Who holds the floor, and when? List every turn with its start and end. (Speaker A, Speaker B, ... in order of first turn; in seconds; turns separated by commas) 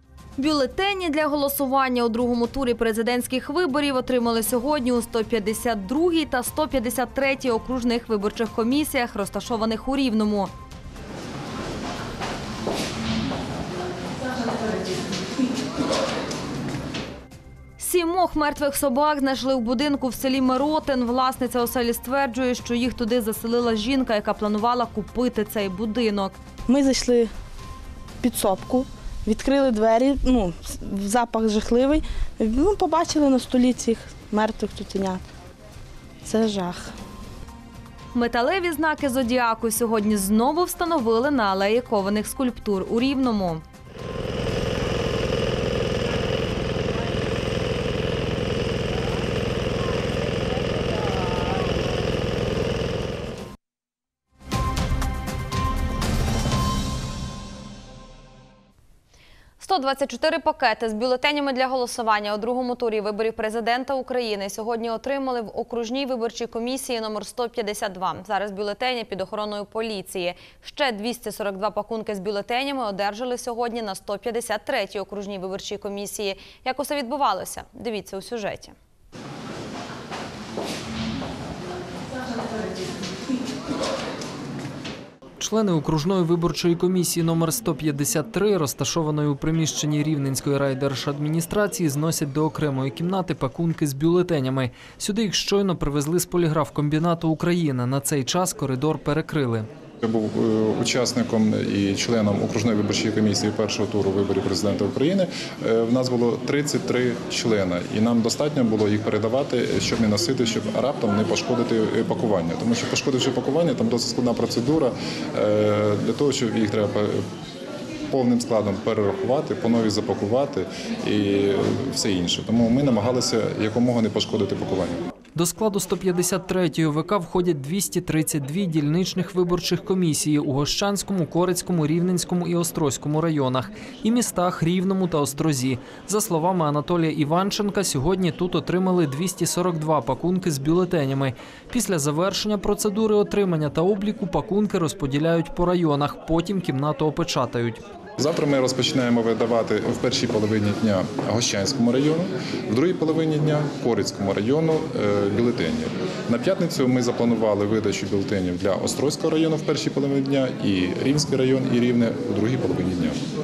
Speaker A: 0.4-10.5, Speaker A: 17.8-26.3, Speaker B: 26.7-27.3, Speaker B: 28.2-35.2, Speaker B: 36.2-36.9, Speaker A: 38.1-43.6, Speaker A: 59.6-78.7, Speaker C: 85.4-99.7, Speaker D: 100.0-117.2, Speaker D: 118.1-125.0, Speaker C: 125.3-147.8, Speaker D: 148.2-163.2